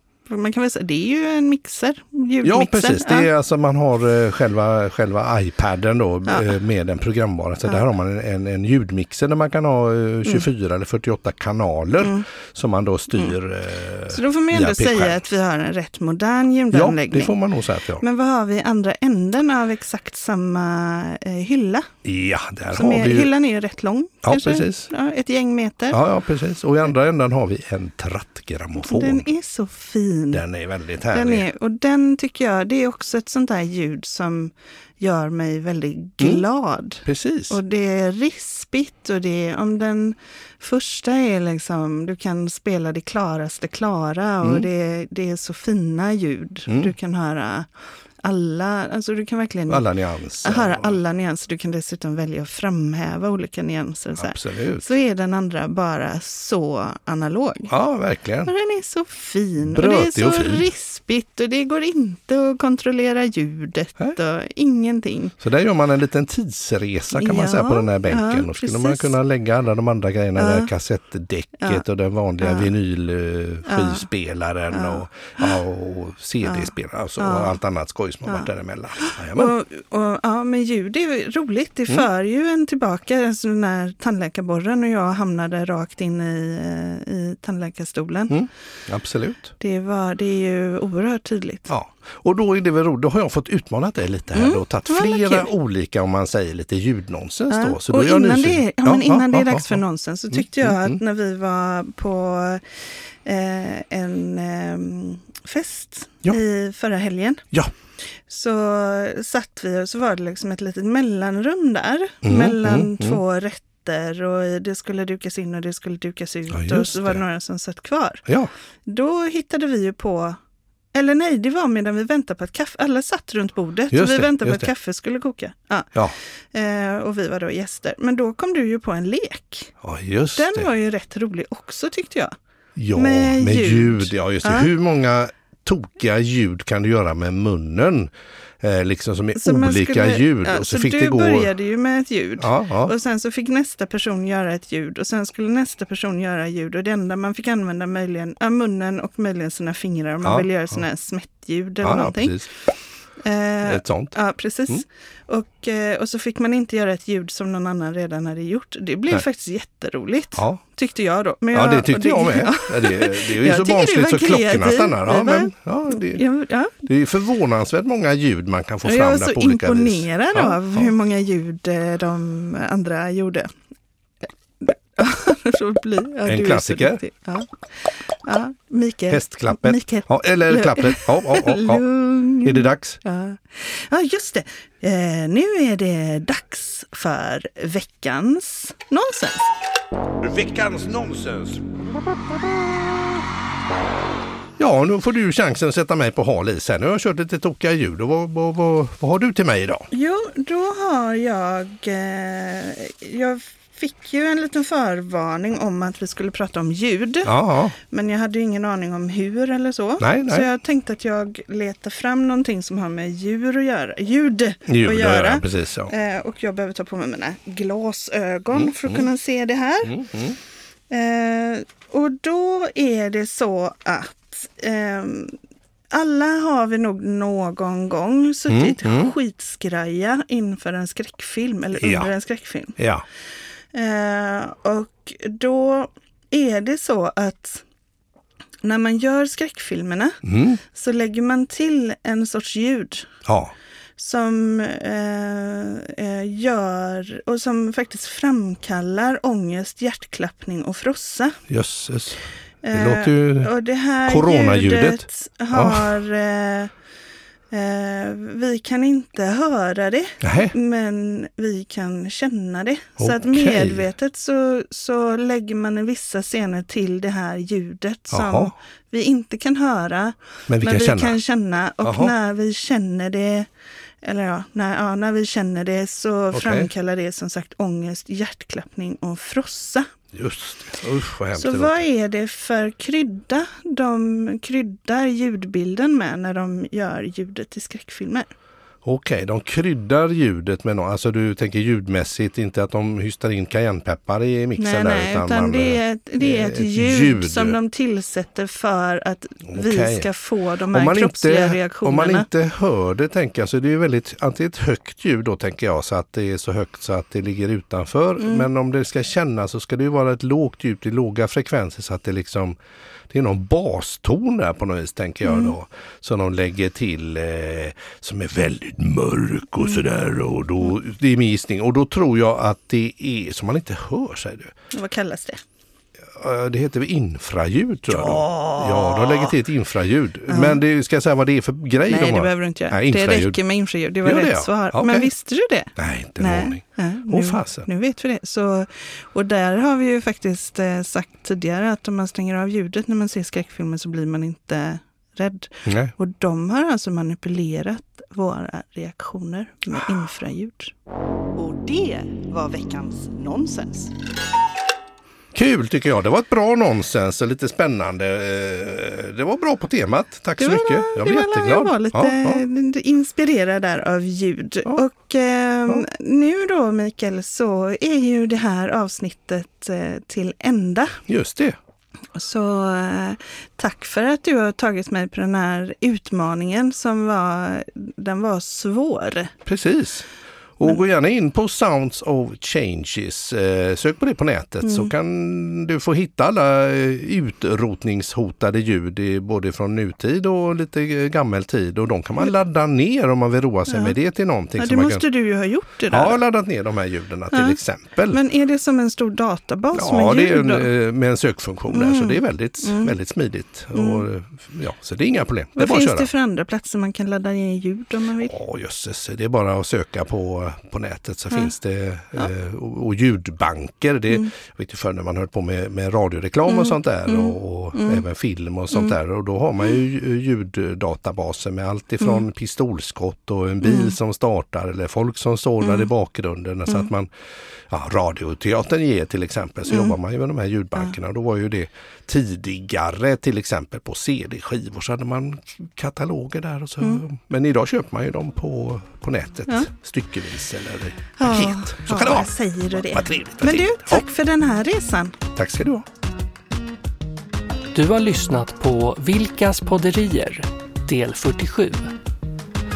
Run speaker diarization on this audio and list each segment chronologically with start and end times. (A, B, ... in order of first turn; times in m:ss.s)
0:00.2-0:03.3 A
0:02.4-0:15.2 B
0:06.2-0:06.5 A
0:14.1-0:17.4 A
0:16.7-0:18.0 B
0:18.0-0:21.9 A
0:22.0-0:23.3 B
0:22.7-0:26.0 A
0:24.2-0:24.9 B
0:25.9-0:29.2 B
0:28.8-0:30.4 A
0:30.3-0:31.5 B
0:31.1-0:47.7 A
0:37.0-0:37.6 B
0:44.4-0:44.7 B
0:46.7-0:46.9 B
0:48.2-0:49.8 A
0:49.7-0:51.0 B
0:50.4-0:57.7 A
0:54.2-0:54.9 B
0:57.7-0:58.5 B
0:58.4-1:05.3 A
0:59.6-1:00.6 B
1:05.4-1:19.5 B
1:07.1-1:09.1 A
1:10.4-1:10.7 A
1:12.4-1:12.7 A
1:13.6-1:14.0 A
1:14.7-1:15.4 A
1:16.4-1:17.6 A
1:19.0-1:28.4 A
1:28.3-1:29.5 B
1:29.6-1:31.7 A
1:31.7-1:39.8 B
1:34.3-1:35.5 A
1:37.5-1:42.6 A
1:40.3-1:41.0 B
1:43.2-1:47.4 A
1:48.3-1:58.2 A
1:52.2-1:53.2 B
1:56.5-1:57.2 B
1:58.2-1:58.5 B
1:58.8-2:00.4 A
2:00.9-2:05.9 A
2:03.9-2:04.7 B
2:06.5-2:09.7 A
2:09.8-2:10.7 B
2:10.4-2:12.3 A
2:12.8-2:21.5 B
2:12.9-2:14.7 A
2:19.4-2:32.4 A
2:22.4-2:22.9 B
2:30.2-2:30.5 B
2:31.8-2:32.5 B
2:33.2-2:46.7 A
2:33.6-2:34.1 B
2:40.4-2:40.6 B
2:41.5-2:46.2 B
2:46.8-2:50.8 B
2:48.8-2:53.5 A
2:54.6-3:09.5 A
2:56.2-2:57.0 B
2:59.1-3:01.8 B
3:02.4-3:03.0 B
3:10.2-3:13.2 B
3:14.6-3:19.9 B
3:19.9-3:40.0 A
3:27.2-3:27.8 B
3:30.0-3:30.5 B
3:34.6-3:35.9 B
3:38.5-3:39.0 B
3:39.8-3:40.4 B
3:40.9-3:45.4 A
3:45.9-3:52.8 A
3:48.5-3:49.1 B
3:51.8-3:52.1 B
3:52.8-3:53.0 B
3:53.7-3:57.6 A
3:58.6-4:03.1 A
4:00.2-4:00.6 B
4:03.2-4:03.5 B
4:04.0-4:11.4 A
4:11.5-4:13.5 B
4:12.6-4:16.7 A
4:14.0-4:15.9 B
4:17.5-4:33.5 A
4:20.2-4:20.5 B
4:23.0-4:23.8 B
4:28.1-4:28.5 B
4:30.5-4:31.2 B
4:31.8-4:32.1 B
4:34.0-4:39.9 A
4:36.3-4:36.7 B
4:40.1-4:41.8 B
4:41.4-4:48.3 A
4:48.8-4:57.6 B
4:54.6-5:02.3 A
4:59.4-5:00.1 B
5:00.7-5:12.6 B
5:08.2-5:08.5 A
5:13.1-5:24.5 B
5:15.2-5:15.5 A
5:24.7-5:25.4 A
5:26.1-5:33.4 B
5:27.9-5:29.3 A
5:30.3-5:30.6 A
5:31.8-5:50.7 A
5:34.0-5:35.1 B
5:35.7-5:37.7 B
5:45.6-5:45.9 B
5:51.3-5:53.9 A
5:55.3-6:02.4 B
6:00.4-6:11.0 A
6:11.1-6:11.6 B
6:12.1-6:19.3 A
6:19.4-6:20.0 B
6:20.6-6:35.0 B
6:24.6-6:24.9 A
6:33.7-6:34.0 A
6:34.6-6:36.2 A
6:35.9-6:38.2 B
6:37.3-6:37.6 A
6:38.1-6:40.7 A
6:39.7-6:46.1 B
6:41.7-6:42.9 A
6:43.7-6:44.0 A
6:45.6-6:48.4 A
6:48.2-7:07.1 B
6:56.5-6:58.0 A
7:03.6-7:03.9 A
7:05.6-7:05.9 A
7:07.7-7:24.0 B
7:09.7-7:10.0 A
7:21.2-7:25.2 A
7:25.3-7:25.8 B
7:27.7-7:31.9 C